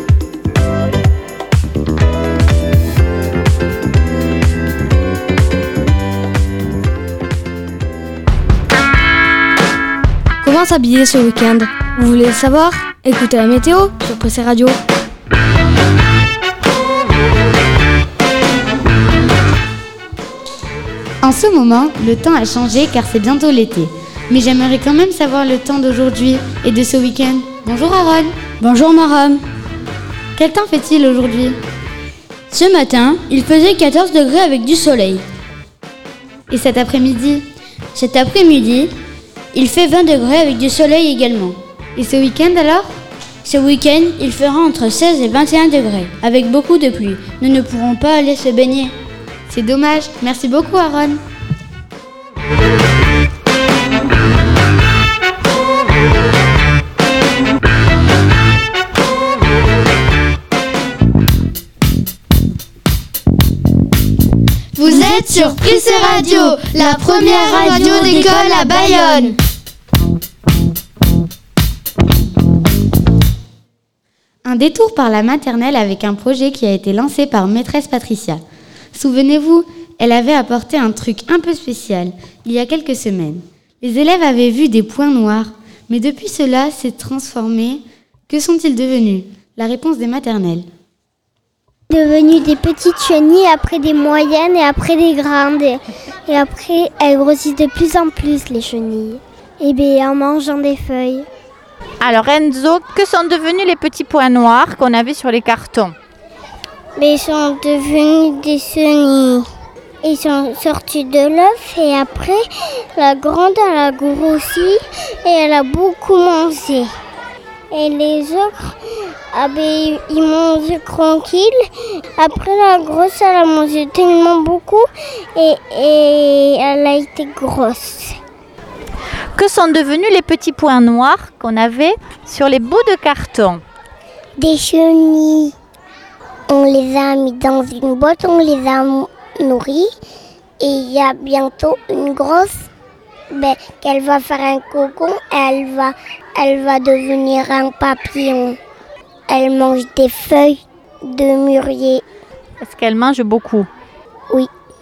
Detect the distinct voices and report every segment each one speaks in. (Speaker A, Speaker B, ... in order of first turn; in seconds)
Speaker A: 10.4-14.8
Speaker B: 21.2-28.4, 30.4-31.6, 36.5-37.4, 42.0-42.9, 49.5-51.2, 74.4-78.4, 78.9-90.7
Speaker C: 28.6-29.4, 32.5-35.2, 37.9-38.9, 39.5-41.6, 43.4-48.9, 66.2-66.5, 67.2-69.1
Speaker D: 64.7-69.3
Speaker E: 92.6-93.7, 94.3-95.8, 96.3-97.5, 107.0-109.5, 110.0-112.4, 113.0-116.9, 117.7-118.7, 119.3-121.5, 122.2-128.2, 134.4-135.5, 136.5-139.9, 140.6-142.6, 143.3-148.6, 149.3-152.0
Speaker F: 102.0-105.9, 129.3-133.6, 152.6-153.7